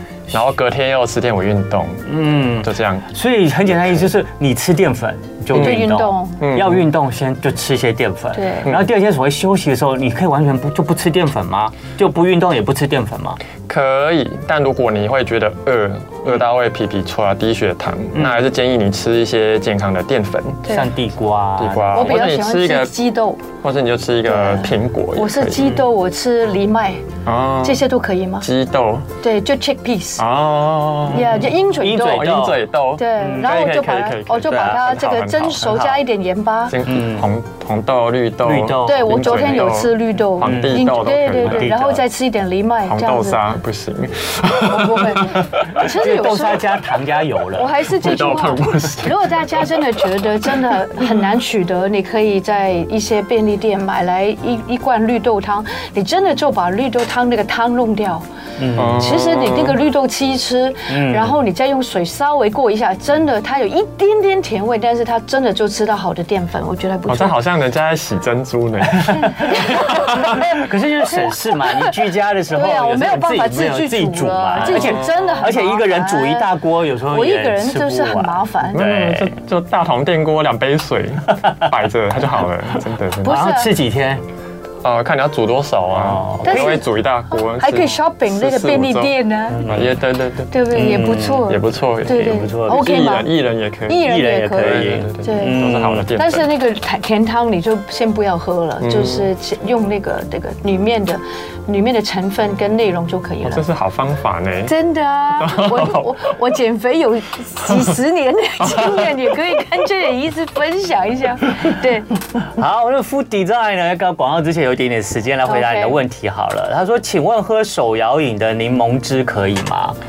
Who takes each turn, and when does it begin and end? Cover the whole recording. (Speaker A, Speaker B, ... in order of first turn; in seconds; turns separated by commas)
Speaker A: 0.3-3.1, Speaker B: 2.0-13.4, Speaker A: 5.5-6.9, Speaker C: 5.5-6.4, Speaker C: 8.3-8.7, Speaker A: 13.7-20.6, Speaker B: 18.1-18.4, Speaker B: 20.7-22.2, Speaker A: 21.6-22.9, Speaker C: 21.9-23.4, Speaker A: 23.6-25.8, Speaker C: 24.2-27.0, Speaker A: 27.2-27.8, Speaker C: 27.6-28.4, Speaker A: 28.4-29.1, Speaker C: 29.2-30.2, Speaker A: 30.2-35.8, Speaker B: 31.1-32.6, Speaker C: 31.1-32.4, Speaker C: 33.0-36.7, Speaker B: 33.2-33.6, Speaker B: 34.5-34.8, Speaker B: 35.6-36.0, Speaker A: 36.7-42.0, Speaker B: 36.8-37.3, Speaker B: 38.4-39.8, Speaker C: 38.8-43.4, Speaker B: 40.4-40.9, Speaker B: 41.4-42.0, Speaker A: 42.9-45.8, Speaker C: 44.5-46.6, Speaker B: 45.8-47.8, Speaker C: 47.5-58.2, Speaker A: 47.9-50.0, Speaker B: 58.6-59.0, Speaker A: 58.7-59.8, Speaker C: 58.9-67.4, Speaker B: 60.9-61.4, Speaker A: 67.1-70.4, Speaker B: 69.0-69.5, Speaker C: 69.2-70.5, Speaker B: 70.1-79.3, Speaker C: 71.1-72.0, Speaker C: 72.5-76.5, Speaker A: 74.6-75.3, Speaker C: 77.1-78.8, Speaker A: 78.7-83.6, Speaker C: 83.2-83.7, Speaker B: 83.2-84.2, Speaker A: 84.8-96.5, Speaker B: 85.9-86.8, Speaker C: 86.4-89.7, Speaker B: 89.5-89.9, Speaker C: 90.5-93.3, Speaker B: 90.7-91.5, Speaker B: 92.1-92.9, Speaker C: 93.9-103.6, Speaker B: 94.0-96.1, Speaker A: 98.8-99.3, Speaker A: 103.4-104.7, Speaker C: 104.7-112.1, Speaker A: 105.4-106.3, Speaker A: 108.6-109.1, Speaker B: 112.5-120.0, Speaker C: 115.5-116.0